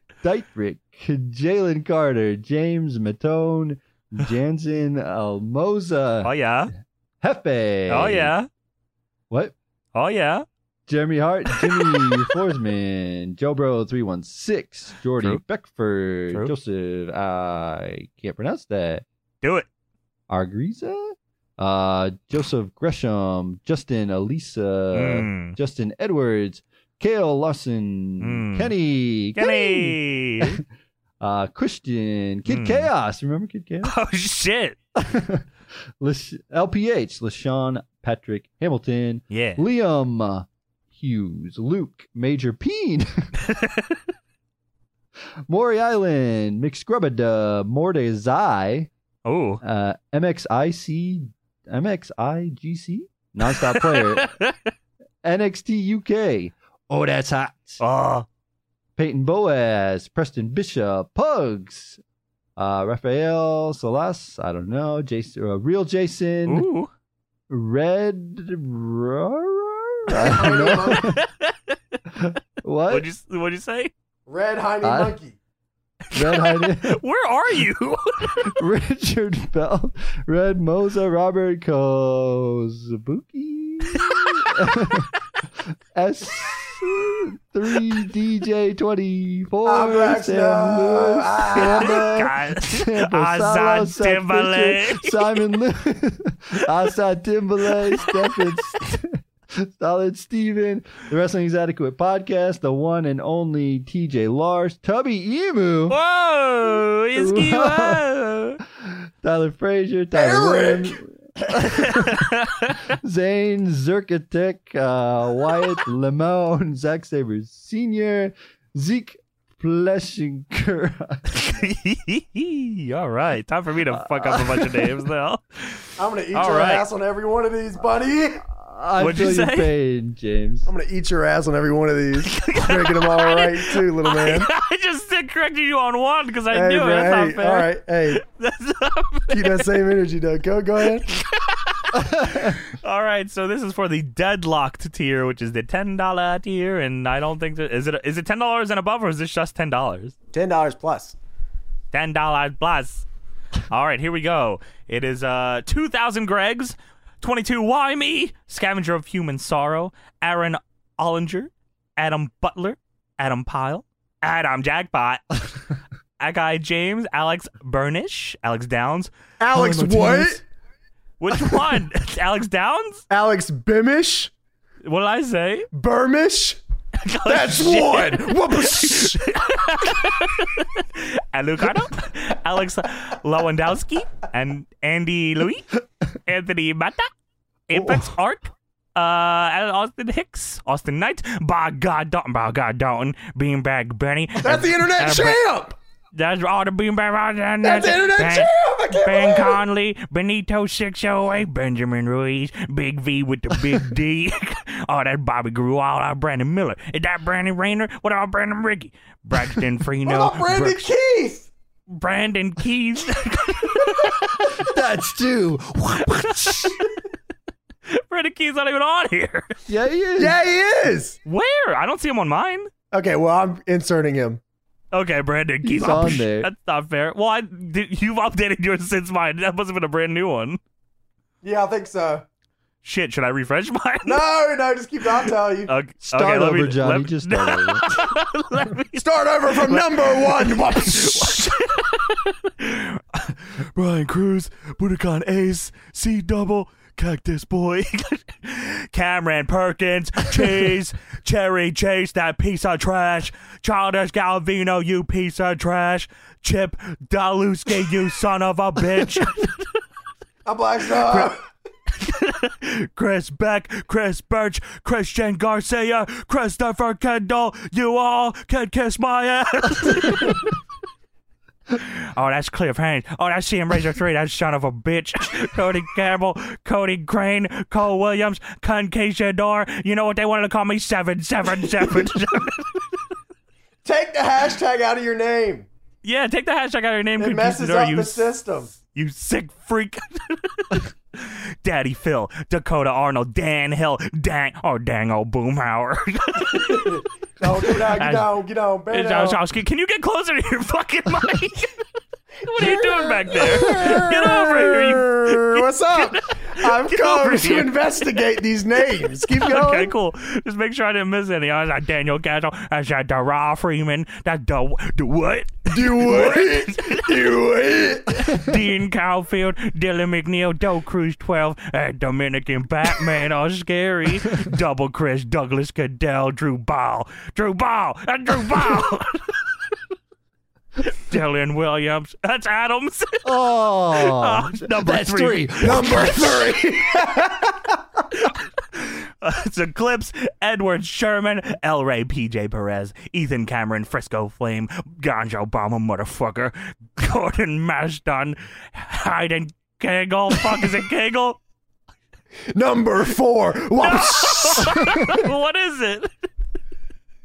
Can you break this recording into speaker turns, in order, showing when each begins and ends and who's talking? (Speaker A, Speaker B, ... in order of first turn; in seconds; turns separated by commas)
Speaker A: 0.2-6.3, Speaker B: 6.2-6.7, Speaker A: 7.2-8.3, Speaker B: 7.9-8.5, Speaker A: 9.3-9.6, Speaker B: 9.9-10.4, Speaker A: 10.9-19.1, Speaker B: 11.5-12.3, Speaker B: 19.4-19.7, Speaker A: 20.3-30.6, Speaker B: 24.9-25.6, Speaker B: 28.2-28.7, Speaker B: 29.4-30.6, Speaker A: 31.2-33.9, Speaker B: 32.5-32.9, Speaker B: 33.8-34.8, Speaker A: 35.0-35.5, Speaker A: 36.0-43.3, Speaker B: 39.3-39.6, Speaker B: 43.4-44.0, Speaker A: 45.5-48.9, Speaker B: 49.2-49.6, Speaker A: 49.6-54.3, Speaker B: 53.6-54.7, Speaker A: 55.2-57.8, Speaker B: 57.8-58.3, Speaker A: 59.0-62.0, Speaker A: 62.6-66.7, Speaker B: 66.5-66.9, Speaker A: 67.5-71.2, Speaker B: 70.1-72.0, Speaker C: 70.2-71.2, Speaker A: 72.1-73.1, Speaker B: 72.9-73.9, Speaker C: 74.3-75.4, Speaker A: 74.8-75.2, Speaker B: 76.1-78.6, Speaker A: 76.1-77.0, Speaker A: 78.4-106.0, Speaker B: 84.0-84.5, Speaker C: 89.7-92.0, Speaker B: 91.6-95.4, Speaker B: 97.8-98.5, Speaker B: 105.9-108.6, Speaker A: 107.2-108.0, Speaker A: 108.8-112.3, Speaker C: 110.1-111.0, Speaker B: 111.6-112.8, Speaker A: 112.9-121.6, Speaker B: 121.3-126.8, Speaker A: 123.9-125.0, Speaker C: 126.0-128.4, Speaker A: 128.5-130.7, Speaker B: 129.0-129.7, Speaker C: 130.7-134.5, Speaker B: 132.3-139.7, Speaker C: 136.5-138.2, Speaker C: 139.3-141.1, Speaker B: 141.1-150.2, Speaker A: 142.0-142.5, Speaker C: 150.3-151.2, Speaker B: 151.9-153.1, Speaker B: 153.7-165.4, Speaker B: 166.2-169.1, Speaker C: 169.4-170.4, Speaker A: 169.6-170.2, Speaker B: 169.7-170.3, Speaker B: 171.2-173.0, Speaker C: 173.1-174.3, Speaker B: 174.8-175.7, Speaker C: 175.7-176.6, Speaker B: 177.0-187.1, Speaker C: 177.2-179.2, Speaker B: 187.7-195.4, Speaker C: 187.7-188.1, Speaker C: 194.4-195.8, Speaker B: 196.1-210.9, Speaker C: 197.6-199.6, Speaker C: 210.1-211.5, Speaker B: 211.9-214.6, Speaker A: 214.5-216.8, Speaker B: 215.9-216.9, Speaker B: 217.9-219.6, Speaker A: 219.7-220.4, Speaker C: 220.2-221.2, Speaker B: 221.3-222.7, Speaker C: 222.9-224.4, Speaker B: 224.9-230.6, Speaker A: 225.6-226.5, Speaker C: 231.4-232.2, Speaker B: 232.8-234.2, Speaker C: 234.0-235.7, Speaker B: 235.7-259.7, Speaker A: 236.0-238.0, Speaker C: 239.0-241.5, Speaker C: 260.5-261.4, Speaker B: 261.1-261.3, Speaker B: 261.9-270.6, Speaker B: 271.7-282.9, Speaker C: 283.9-285.7, Speaker B: 286.0-288.3, Speaker C: 287.2-288.7, Speaker B: 288.9-297.0, Speaker C: 296.5-299.4, Speaker B: 297.6-298.3, Speaker B: 298.9-301.8, Speaker B: 302.4-308.2, Speaker C: 302.6-309.9, Speaker B: 309.3-317.4, Speaker C: 315.7-318.4, Speaker B: 318.1-329.7, Speaker B: 330.8-333.3, Speaker A: 333.2-336.5, Speaker B: 333.9-336.2, Speaker C: 335.6-337.8, Speaker B: 338.1-351.4, Speaker C: 352.5-355.2, Speaker B: 353.8-356.1